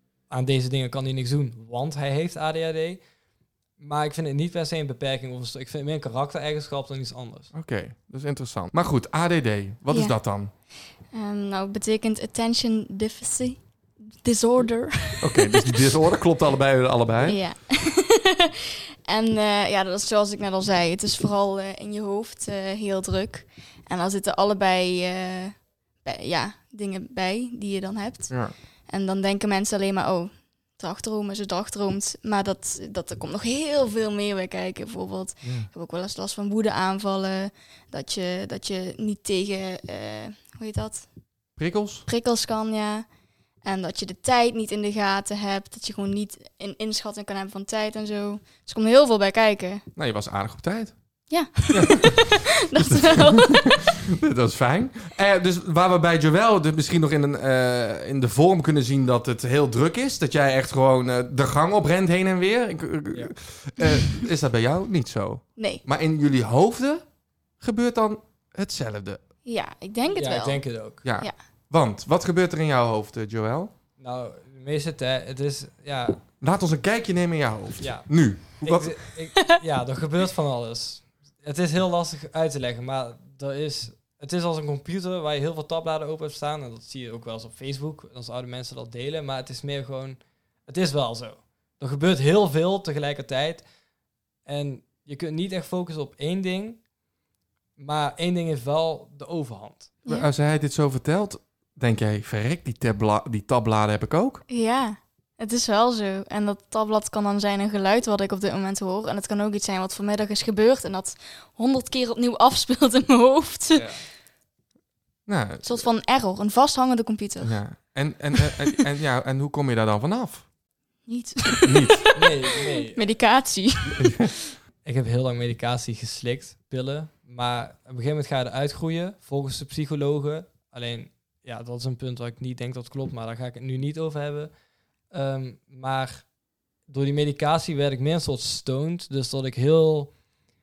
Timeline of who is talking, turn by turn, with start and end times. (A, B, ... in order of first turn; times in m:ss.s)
0:00.3-0:03.0 A
0:03.8-0:07.5 A
0:07.5-0:10.5 B
0:09.9-0:10.2 C
0:11.1-0:15.6 C
0:15.2-0:17.4 B
0:17.2-0:41.1 C
0:28.3-0:28.6 B
0:35.4-0:35.7 B
0:41.6-0:42.1 B
0:42.1-0:43.1 C
0:43.6-0:49.9 C
0:50.0-0:51.0 B
0:51.3-0:53.9 C
0:51.7-0:53.5 B
0:54.2-1:07.1 B
1:05.6-1:05.8 C
1:07.6-1:09.2 B
1:09.4-1:11.4 C
1:10.1-1:11.0 A
1:11.0-1:13.7 B
1:14.0-1:16.2 A
1:16.4-1:18.9 B
1:17.8-1:33.6 A
1:34.4-1:36.8 A
1:37.8-1:40.0 A
1:40.1-1:44.4 B
1:44.5-1:54.0 C
1:53.7-1:54.0 A
1:55.3-1:55.9 B
1:55.6-1:57.6 C
1:57.4-2:00.5 B
2:01.0-2:02.2 C
2:01.6-2:02.0 B
2:02.2-2:03.0 A
2:02.9-2:04.3 C
2:04.0-2:04.3 B
2:04.8-2:14.5 A
2:15.1-2:16.3 A
2:16.9-2:20.2 A